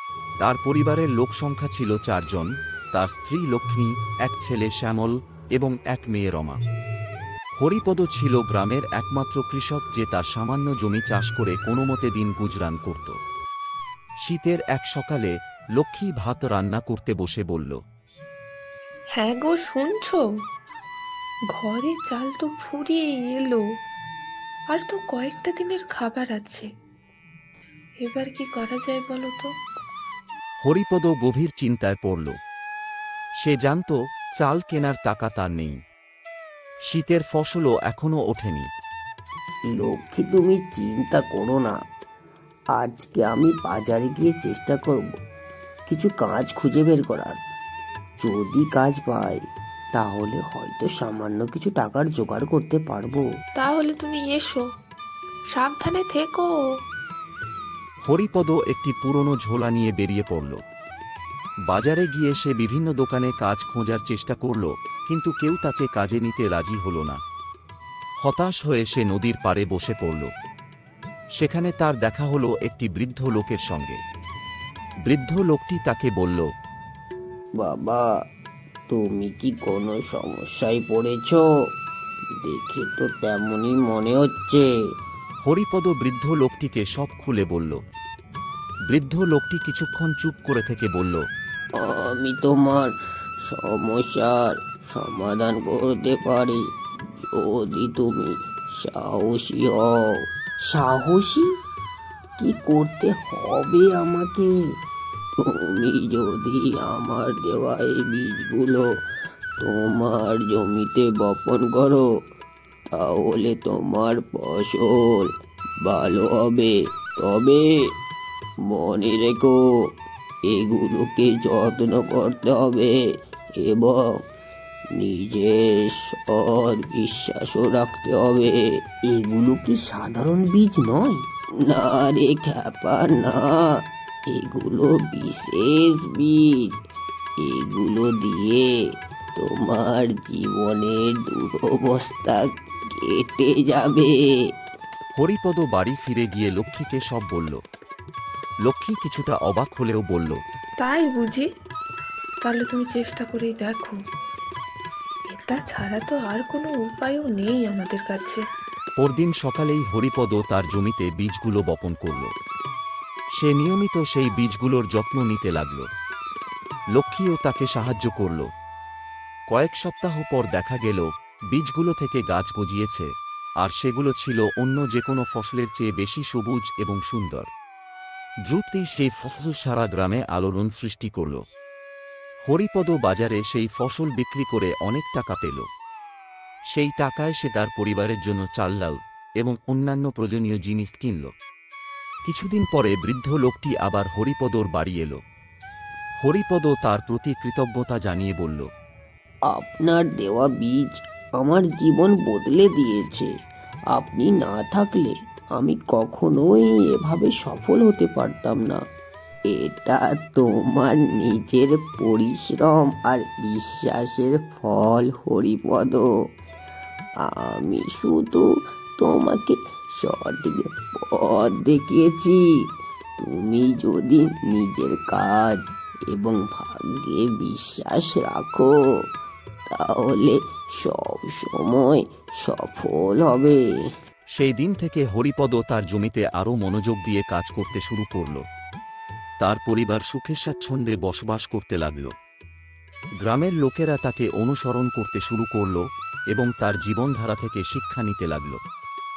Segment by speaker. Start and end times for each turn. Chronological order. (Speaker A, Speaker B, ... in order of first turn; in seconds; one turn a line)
Speaker A: 0.4-6.6
Speaker A: 7.6-13.1
Speaker A: 14.2-17.8
Speaker B: 19.1-20.2
Speaker B: 21.5-23.6
Speaker B: 24.7-26.6
Speaker B: 28.0-29.5
Speaker A: 30.6-32.3
Speaker A: 33.4-35.8
Speaker A: 36.9-38.7
Speaker C: 39.7-41.8
Speaker C: 42.7-45.2
Speaker C: 45.9-47.4
Speaker C: 48.2-49.4
Speaker C: 49.9-53.3
Speaker B: 53.6-54.6
Speaker B: 55.5-56.5
Speaker A: 58.0-60.6
Speaker A: 61.7-67.2
Speaker A: 68.2-70.3
Speaker A: 71.3-74.0
Speaker A: 75.0-76.5
Speaker C: 77.6-78.1
Speaker C: 78.9-81.4
Speaker C: 82.4-84.7
Speaker A: 85.4-87.8
Speaker A: 88.9-91.2
Speaker C: 91.8-92.9
Speaker C: 93.5-96.6
Speaker C: 97.3-101.5
Speaker C: 102.4-104.5
Speaker C: 105.4-108.9
Speaker C: 109.6-112.1
Speaker C: 112.9-115.3
Speaker C: 115.8-117.8
Speaker C: 118.7-119.6
Speaker C: 120.5-123.0
Speaker C: 123.6-124.2
Speaker C: 124.9-136.7
Speaker C: 137.4-138.7
Speaker C: 139.3-144.2
Speaker A: 145.2-147.6
Speaker A: 148.6-150.4
Speaker B: 150.8-151.4
Speaker B: 152.4-154.0
Speaker B: 155.3-158.4
Speaker A: 159.0-162.3
Speaker A: 163.4-165.8
Speaker A: 166.9-168.5
Speaker A: 169.5-173.1
Speaker A: 173.6-177.5
Speaker A: 178.4-181.4
Speaker A: 182.5-185.7
Speaker A: 186.7-191.3
Speaker A: 192.3-195.2
Speaker A: 196.2-198.7
Speaker C: 199.5-203.3
Speaker C: 203.9-208.8
Speaker C: 209.5-216.1
Speaker C: 217.2-222.6
Speaker C: 223.2-225.6
Speaker C: 226.1-228.7
Speaker C: 229.7-233.6
Speaker A: 234.3-238.4
Speaker A: 239.4-242.1
Speaker A: 243.2-245.8
Speaker A: 246.3-248.6